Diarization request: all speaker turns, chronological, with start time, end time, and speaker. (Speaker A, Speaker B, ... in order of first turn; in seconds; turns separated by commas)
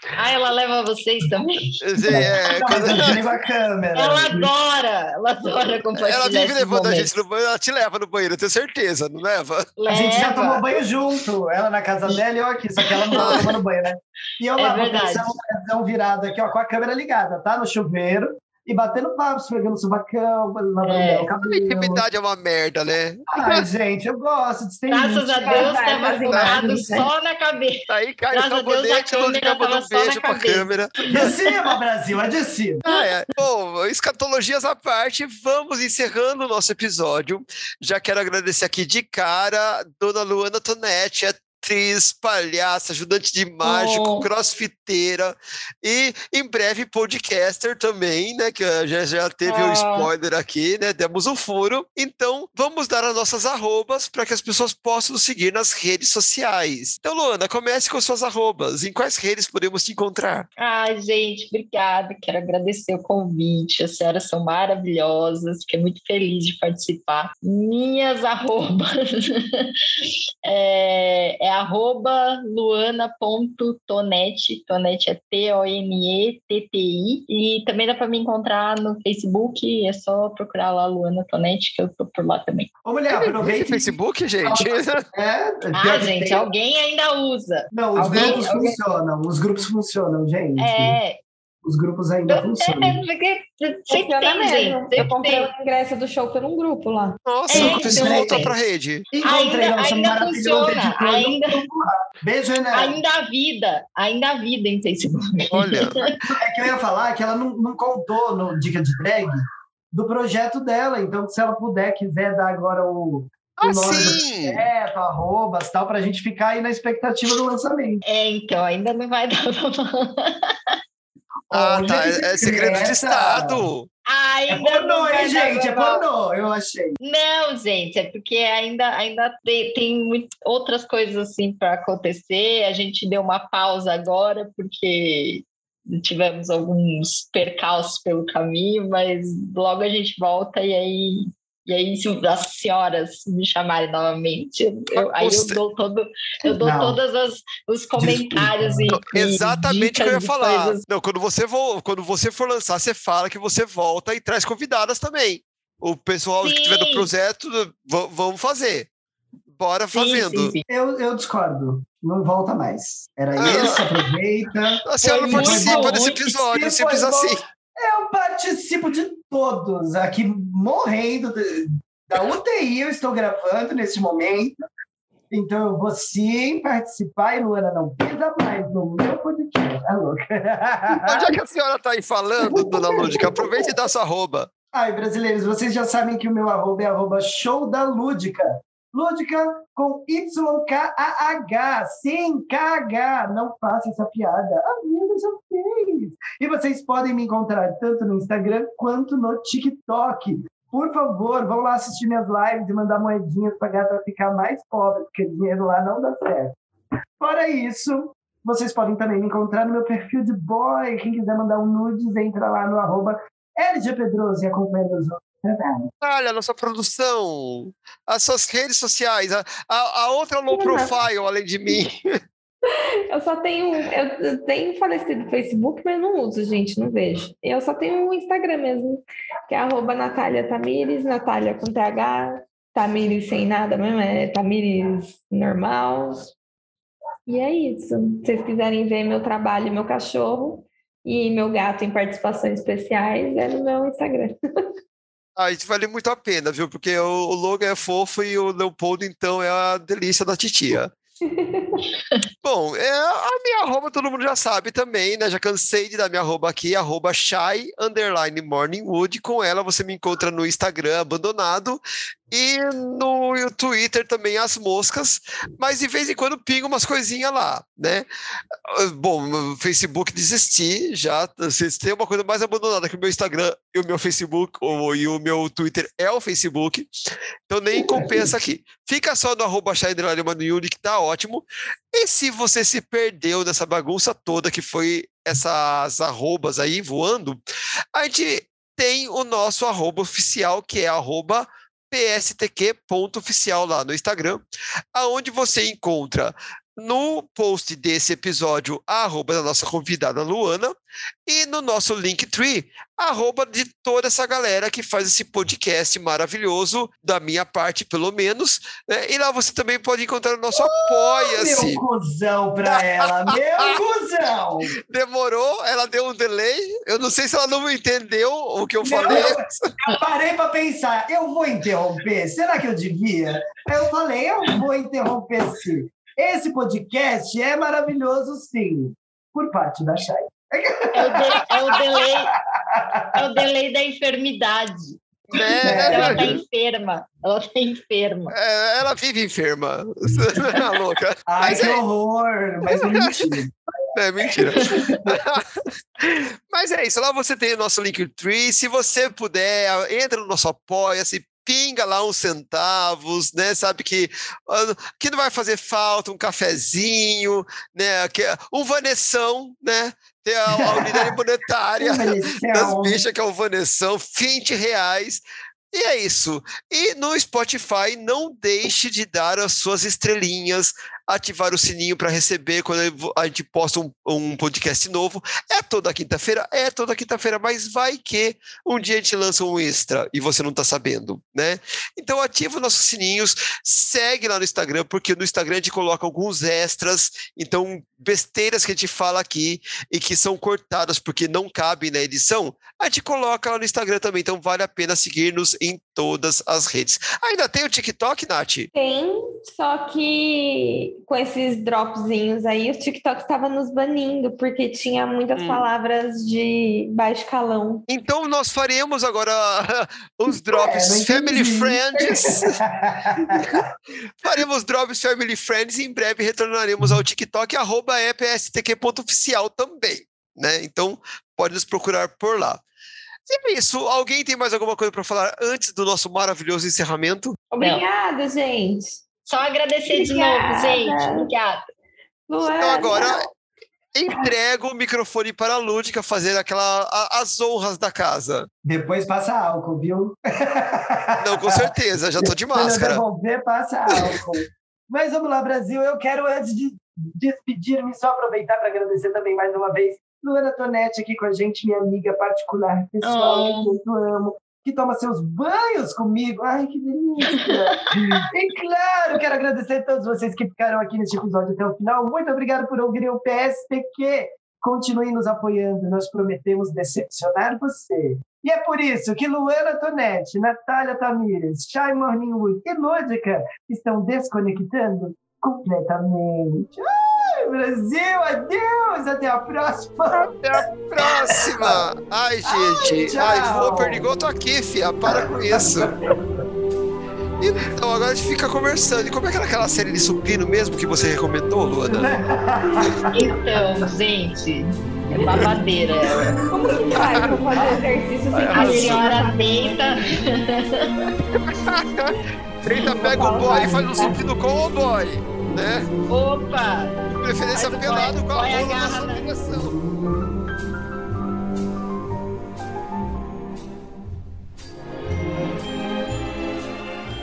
Speaker A: 0.1-1.8, Speaker B: 1.8-3.2, Speaker C: 2.0-4.5, Speaker A: 3.9-7.1, Speaker B: 6.0-9.7, Speaker A: 9.8-10.8, Speaker C: 9.9-22.0, Speaker A: 12.8-13.4, Speaker B: 13.2-13.5, Speaker A: 14.6-15.3, Speaker A: 20.8-21.3, Speaker B: 21.4-23.6, Speaker C: 23.3-25.7, Speaker A: 24.9-31.5, Speaker D: 25.4-27.1, Speaker B: 26.3-26.6, Speaker B: 27.9-31.3, Speaker C: 31.1-32.8, Speaker B: 32.8-60.5, Speaker A: 32.9-33.2, Speaker A: 43.6-44.3, Speaker A: 49.4-50.1, Speaker A: 60.6-82.7, Speaker C: 82.8-86.5, Speaker B: 83.1-85.0, Speaker A: 85.7-88.8, Speaker C: 87.7-91.0, Speaker B: 88.0-88.4, Speaker A: 90.6-91.2, Speaker C: 91.6-93.0, Speaker A: 92.3-95.5, Speaker D: 93.9-97.2, Speaker B: 97.2-99.0, Speaker A: 97.5-98.5, Speaker C: 97.5-98.5, Speaker C: 99.1-103.0, Speaker A: 99.2-101.6, Speaker A: 102.7-106.2, Speaker B: 105.5-106.1, Speaker C: 106.3-118.0, Speaker B: 113.6-114.6, Speaker A: 118.0-120.8, Speaker C: 121.5-123.6, Speaker B: 121.5-123.9, Speaker A: 124.0-126.0, Speaker C: 124.5-126.9, Speaker A: 127.0-150.8, Speaker B: 144.9-145.6, Speaker C: 146.6-147.0, Speaker C: 148.0-149.0, Speaker B: 148.9-158.9, Speaker A: 156.4-157.1, Speaker B: 159.6-160.5, Speaker A: 159.9-160.6, Speaker C: 160.7-174.6, Speaker B: 163.4-163.8, Speaker B: 164.8-167.4, Speaker A: 165.0-166.4, Speaker C: 175.3-181.3, Speaker B: 180.9-184.5, Speaker C: 182.5-183.7, Speaker C: 184.7-206.6, Speaker C: 207.2-215.9, Speaker B: 216.0-222.2, Speaker D: 220.5-220.9, Speaker D: 223.1-236.3, Speaker D: 237.3-244.4, Speaker B: 245.3-250.9, Speaker D: 251.2-251.8, Speaker B: 252.4-268.1, Speaker B: 268.6-276.9, Speaker B: 277.5-287.4, Speaker C: 277.9-278.3, Speaker B: 287.9-294.4, Speaker B: 294.9-300.7, Speaker B: 301.3-311.8, Speaker C: 310.5-314.8, Speaker B: 312.6-313.8, Speaker B: 314.9-319.8, Speaker C: 318.8-333.4, Speaker A: 330.9-332.3, Speaker A: 333.1-338.3, Speaker B: 335.3-336.4, Speaker C: 335.6-336.4, Speaker B: 338.3-341.8, Speaker C: 341.3-343.5, Speaker B: 342.8-343.2, Speaker B: 343.9-345.4, Speaker A: 344.4-345.0, Speaker C: 344.4-345.2, Speaker B: 346.0-365.2, Speaker C: 360.5-361.1, Speaker C: 361.8-363.0, Speaker B: 365.7-398.7, Speaker D: 398.7-407.8, Speaker B: 405.3-405.6, Speaker B: 407.9-412.6, Speaker C: 410.5-413.6, Speaker B: 413.3-413.7, Speaker B: 414.2-422.6, Speaker B: 423.3-427.4, Speaker D: 427.5-429.0, Speaker A: 429.3-431.6, Speaker D: 429.9-431.3, Speaker D: 432.3-433.3, Speaker B: 432.6-433.2, Speaker B: 433.9-438.5, Speaker C: 438.6-441.6, Speaker B: 441.2-443.0, Speaker C: 442.2-480.3, Speaker A: 453.0-453.7, Speaker A: 457.3-458.2, Speaker B: 480.1-485.9, Speaker C: 481.0-481.8, Speaker C: 482.4-484.0, Speaker C: 485.1-486.2, Speaker B: 487.4-492.1, Speaker C: 491.9-493.3, Speaker A: 493.1-496.3, Speaker C: 495.2-495.5, Speaker C: 496.1-496.3, Speaker D: 496.4-500.0, Speaker C: 496.9-497.8, Speaker B: 497.0-497.3, Speaker B: 498.3-499.1, Speaker A: 498.5-500.9, Speaker B: 501.4-505.9, Speaker D: 502.7-504.2, Speaker A: 506.1-507.0, Speaker B: 507.2-509.8, Speaker A: 507.5-509.3